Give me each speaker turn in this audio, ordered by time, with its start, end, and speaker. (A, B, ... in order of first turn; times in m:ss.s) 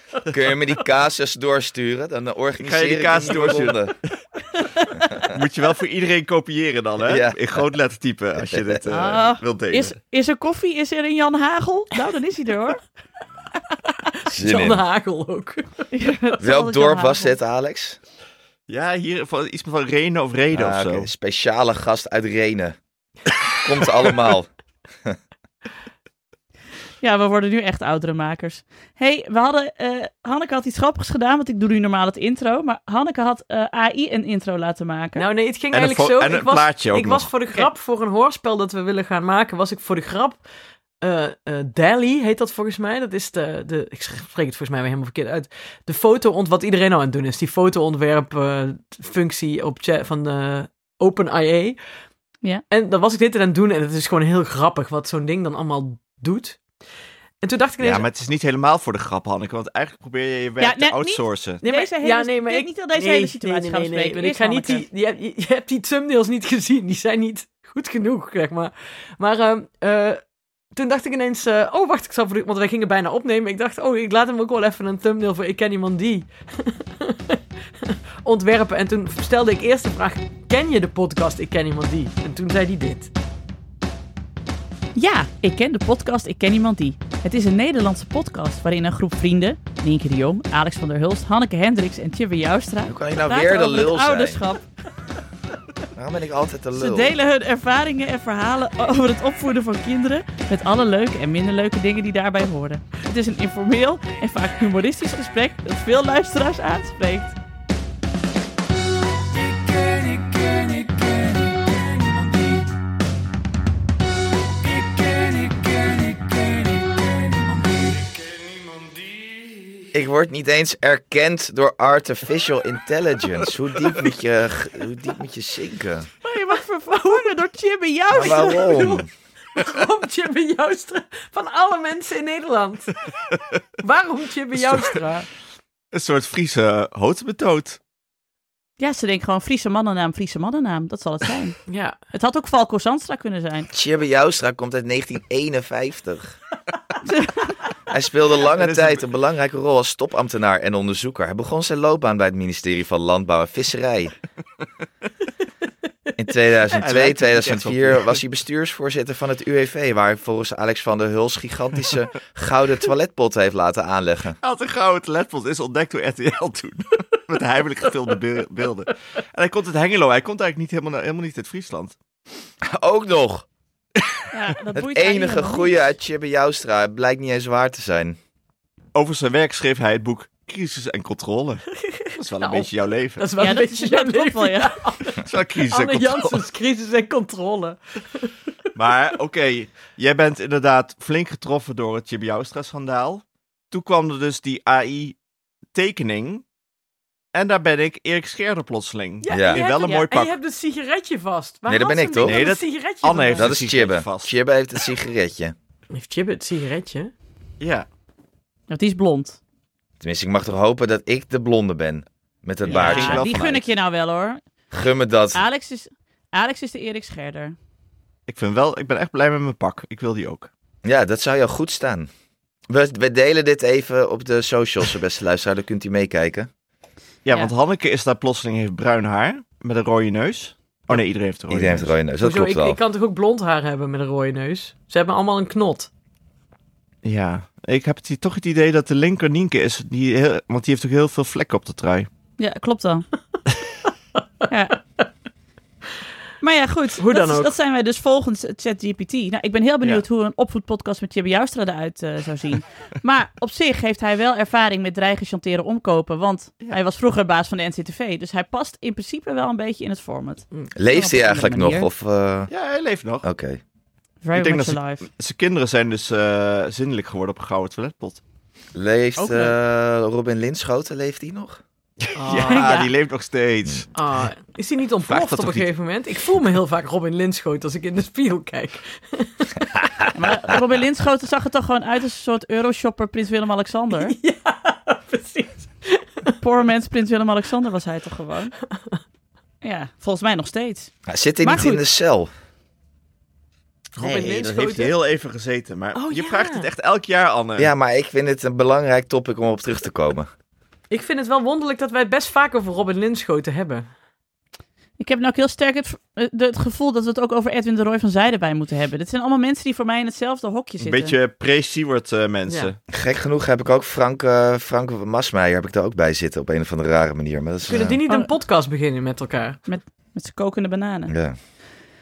0:00.3-0:03.9 A
0:02.6-0:03.9 B
0:04.7-0:05.1 C
0:05.2-0:09.9 B
0:07.1-0:07.4 A
0:08.4-0:08.8 A
0:08.9-0:12.8 C
0:14.2-0:15.9 D
0:14.3-0:14.8 A
0:15.9-0:17.3 C
0:16.4-0:18.0 A
0:18.7-0:21.1 B
0:20.5-0:22.8 A
0:23.5-0:24.5 A
0:27.0-0:35.2 C
0:35.2-0:40.4 D
0:35.7-0:37.3 B
0:41.0-0:51.8 D
0:52.7-0:56.6 D
0:57.4-0:58.1 D
0:57.8-1:01.6 B
1:00.6-1:04.8 C
1:01.6-1:10.2 D
1:10.7-1:23.1 D
1:25.0-1:34.6 C
1:32.9-1:34.4 A
1:36.0-1:37.1 A
1:36.8-1:47.4 C
1:59.9-2:06.1 A
2:06.2-2:08.9 C
2:08.1-2:09.1 A
2:08.2-2:13.0 D
2:13.8-2:15.3 D
2:14.6-2:15.0 B
2:15.9-2:17.8 B
2:18.8-2:21.6 C
2:21.7-2:22.0 D
2:22.1-2:23.7 C
2:23.7-2:26.4 A
2:27.9-2:34.1 A
2:28.6-2:29.0 B
2:36.2-2:44.4 A
2:36.7-2:38.2 B
2:44.4-2:52.0 B
2:52.6-2:53.4 A
2:54.3-2:55.8 C
2:54.8-2:58.2 A
2:58.9-3:03.2 B
3:02.0-3:08.3 D
3:03.4-3:04.8 C
3:05.2-3:06.4 B
3:08.8-3:15.2 B
3:15.7-3:16.4 B
3:17.3-3:20.3 B
3:19.2-3:23.6 D
3:19.3-3:19.6 A
3:19.8-3:20.1 C
3:21.7-3:22.5 A
3:22.2-3:24.3 B
3:23.4-3:25.5 A
3:25.9-3:27.1 D
3:27.6-3:27.9 B
3:28.7-3:29.4 C
3:30.0-3:33.3 A
3:32.6-3:34.4 C
3:32.7-3:33.6 B
3:34.7-3:35.4 A
3:35.3-3:37.6 C
3:38.3-3:40.5 B
3:40.8-3:42.1 A
3:42.7-3:46.5 A
3:47.2-3:51.9 B
3:51.5-3:52.8 A
3:52.2-3:55.9 D
3:57.0-4:02.1 B
4:02.4-4:03.1 C
4:04.5-4:04.8 C
4:06.4-4:21.9 C
4:07.0-4:07.5 D
4:20.8-4:22.5 A
4:22.5-4:23.2 B
4:23.2-4:23.6 A
4:24.2-4:25.0 C
4:24.3-4:28.2 B
4:28.8-4:31.6 A
4:29.2-4:29.5 C
4:32.0-4:33.9 B
4:32.2-4:32.9 D
4:32.5-4:32.9 C
4:34.0-4:39.7 D
4:35.1-4:35.7 B
4:40.1-4:44.2 C
4:43.9-4:46.4 D
4:46.4-4:48.5 C
4:49.6-4:50.9 C
4:51.1-4:52.3 A
4:51.4-4:51.8 C
4:54.0-4:54.9 D
4:54.0-4:57.7 B
4:56.0-4:56.7 D
4:57.6-5:00.3 A
5:00.9-5:03.9 D
5:05.0-5:11.2 C
5:10.8-5:12.8 B
5:12.5-5:12.7 D
5:12.9-5:18.0 A
5:17.7-5:19.6 D
5:19.7-5:21.1 C
5:21.1-5:21.4 A